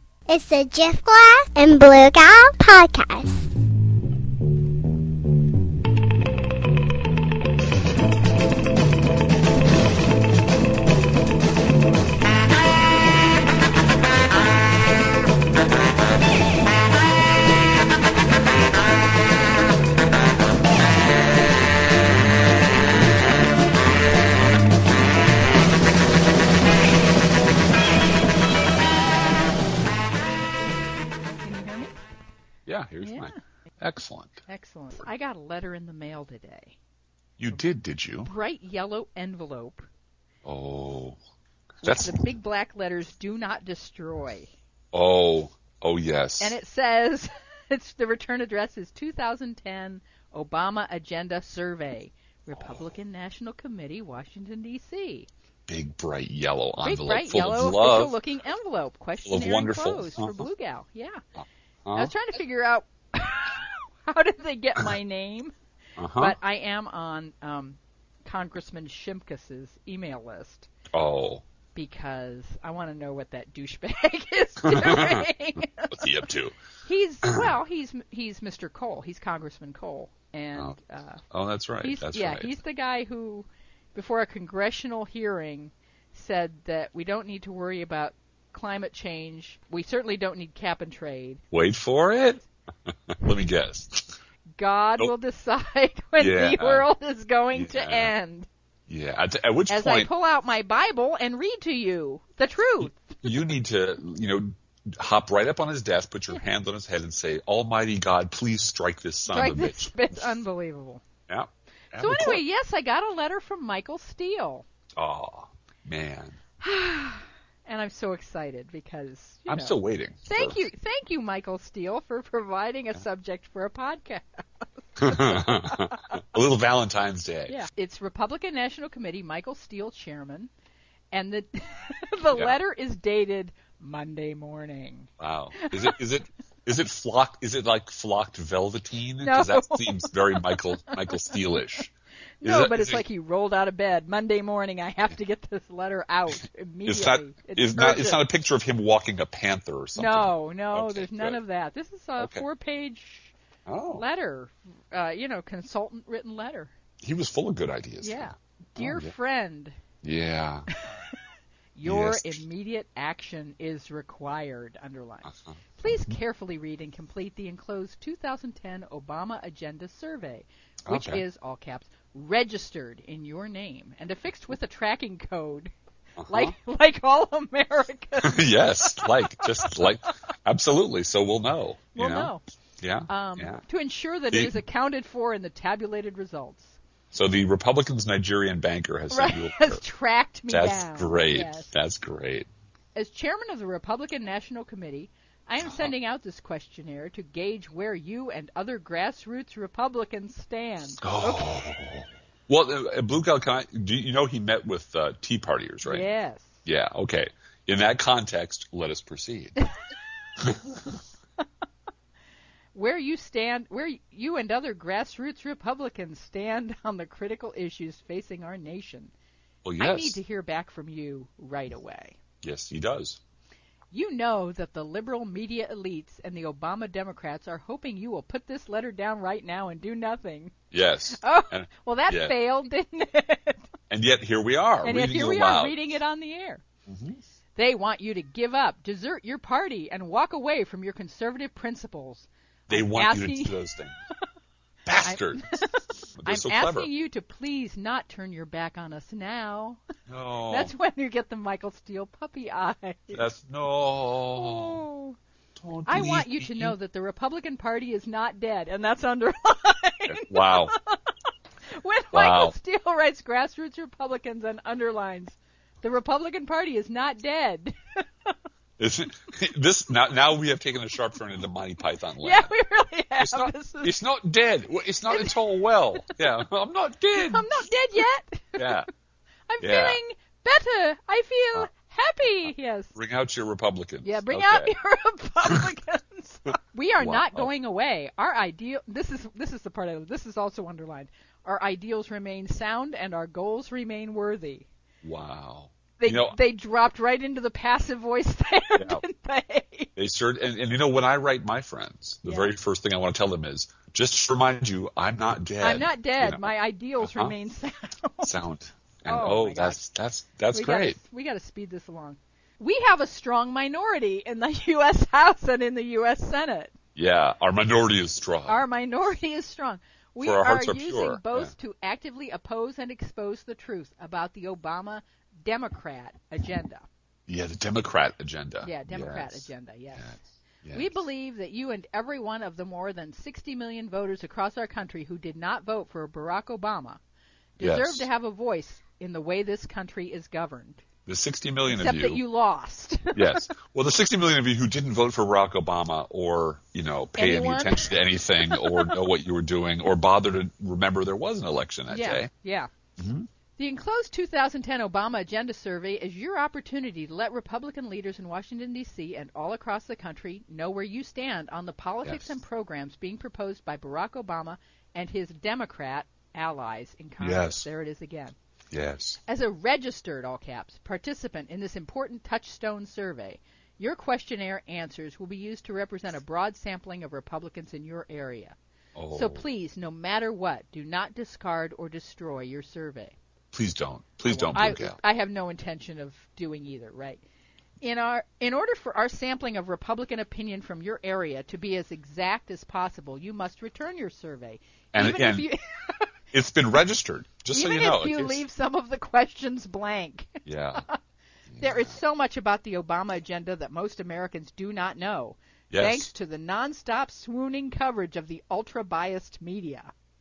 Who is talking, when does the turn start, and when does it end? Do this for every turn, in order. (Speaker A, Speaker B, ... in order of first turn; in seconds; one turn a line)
Speaker A: 0.3-3.4
Speaker B: 31.4-31.9
Speaker C: 32.7-34.4
Speaker B: 33.0-33.4
Speaker B: 34.5-36.8
Speaker C: 37.4-38.3
Speaker B: 38.2-39.9
Speaker C: 40.4-41.2
Speaker C: 41.8-42.2
Speaker B: 41.8-44.5
Speaker C: 44.9-46.5
Speaker B: 46.4-55.3
Speaker C: 55.7-58.2
Speaker B: 56.8-61.2
Speaker C: 59.2-60.4
Speaker C: 61.8-62.1
Speaker B: 61.9-65.5
Speaker C: 66.0-66.4
Speaker B: 66.2-70.7
Speaker C: 70.9-71.4
Speaker B: 71.8-76.2
Speaker C: 74.6-75.2
Speaker C: 75.9-76.6
Speaker B: 76.8-81.2
Speaker C: 81.3-82.6
Speaker B: 81.8-91.4
Speaker C: 91.5-94.1
Speaker B: 94.6-98.5
Speaker C: 96.2-96.9
Speaker C: 97.5-98.1
Speaker C: 98.9-100.1
Speaker B: 99.7-103.2
Speaker C: 103.2-110.2
Speaker B: 109.3-111.0
Speaker C: 111.3-112.4
Speaker B: 112.0-114.7
Speaker C: 115.0-116.4
Speaker B: 116.6-126.2
Speaker C: 119.5-120.6
Speaker C: 125.0-127.6
Speaker B: 127.5-130.5
Speaker B: 131.1-136.0
Speaker C: 135.2-141.9
Speaker B: 139.2-141.3
Speaker B: 142.4-148.2
Speaker C: 142.4-143.0
Speaker C: 146.8-151.4
Speaker B: 149.9-153.3
Speaker C: 152.2-152.4
Speaker C: 153.7-154.0
Speaker B: 153.9-156.7
Speaker C: 157.0-159.1
Speaker B: 158.0-159.8
Speaker C: 160.0-160.7
Speaker B: 160.7-161.1
Speaker B: 161.7-175.7
Speaker C: 161.8-162.4
Speaker C: 165.3-166.1
Speaker C: 170.8-171.2
Speaker C: 176.2-176.5
Speaker B: 176.3-179.9
Speaker C: 178.2-183.6
Speaker B: 181.9-182.4
Speaker B: 183.1-186.8
Speaker C: 184.3-184.6
Speaker C: 187.1-189.8
Speaker B: 189.1-191.7
Speaker C: 190.5-192.5
Speaker B: 192.9-201.5
Speaker C: 195.7-195.9
Speaker C: 201.0-206.1
Speaker B: 205.8-206.6
Speaker C: 206.6-209.7
Speaker C: 210.4-211.0
Speaker B: 212.7-219.1
Speaker C: 219.6-220.2
Speaker B: 219.8-222.2
Speaker C: 222.4-223.2
Speaker B: 223.9-230.5
Speaker C: 230.7-232.3
Speaker B: 231.1-233.7
Speaker C: 233.9-235.8
Speaker B: 234.8-236.6
Speaker C: 236.9-237.2
Speaker B: 237.6-243.6
Speaker C: 242.7-243.9
Speaker C: 244.8-245.6
Speaker B: 245.0-249.8
Speaker C: 246.2-246.9
Speaker C: 250.1-250.7
Speaker B: 250.5-253.3
Speaker C: 253.1-254.8
Speaker B: 254.4-255.2
Speaker C: 255.6-256.8
Speaker B: 255.9-261.0
Speaker C: 260.1-260.7
Speaker B: 261.7-268.3
Speaker C: 262.1-262.5
Speaker C: 268.8-272.5
Speaker B: 272.2-273.9
Speaker C: 273.2-277.4
Speaker B: 275.1-275.4
Speaker B: 277.1-278.8
Speaker C: 278.6-278.9
Speaker B: 279.5-282.9
Speaker C: 279.6-280.0
Speaker C: 282.4-284.7
Speaker B: 284.0-294.7
Speaker C: 287.0-287.5
Speaker C: 295.0-296.4
Speaker B: 296.0-299.9
Speaker C: 298.8-299.0
Speaker C: 299.9-307.3
Speaker B: 302.2-302.5
Speaker B: 305.6-308.3
Speaker C: 308.2-311.0
Speaker B: 309.1-309.8
Speaker B: 310.5-316.8
Speaker C: 316.9-318.6
Speaker B: 318.5-326.9
Speaker C: 320.2-321.5
Speaker C: 327.3-331.0
Speaker B: 328.6-330.2
Speaker B: 330.7-337.0
Speaker B: 337.6-340.8
Speaker C: 337.6-338.1
Speaker C: 341.1-342.2
Speaker B: 341.7-343.4
Speaker C: 343.1-352.3
Speaker B: 347.2-347.9
Speaker B: 348.5-349.0
Speaker B: 351.9-352.7
Speaker C: 353.0-353.3
Speaker B: 353.6-368.4
Speaker C: 367.2-367.6
Speaker C: 368.7-369.2
Speaker B: 369.3-378.6
Speaker C: 378.9-379.4
Speaker B: 379.1-383.1
Speaker C: 383.5-385.0
Speaker B: 384.3-387.2
Speaker B: 387.8-396.1
Speaker C: 394.9-395.5
Speaker C: 396.3-398.4
Speaker B: 397.5-401.0
Speaker C: 400.4-400.8
Speaker C: 401.5-401.9
Speaker B: 401.6-409.9
Speaker C: 405.7-406.1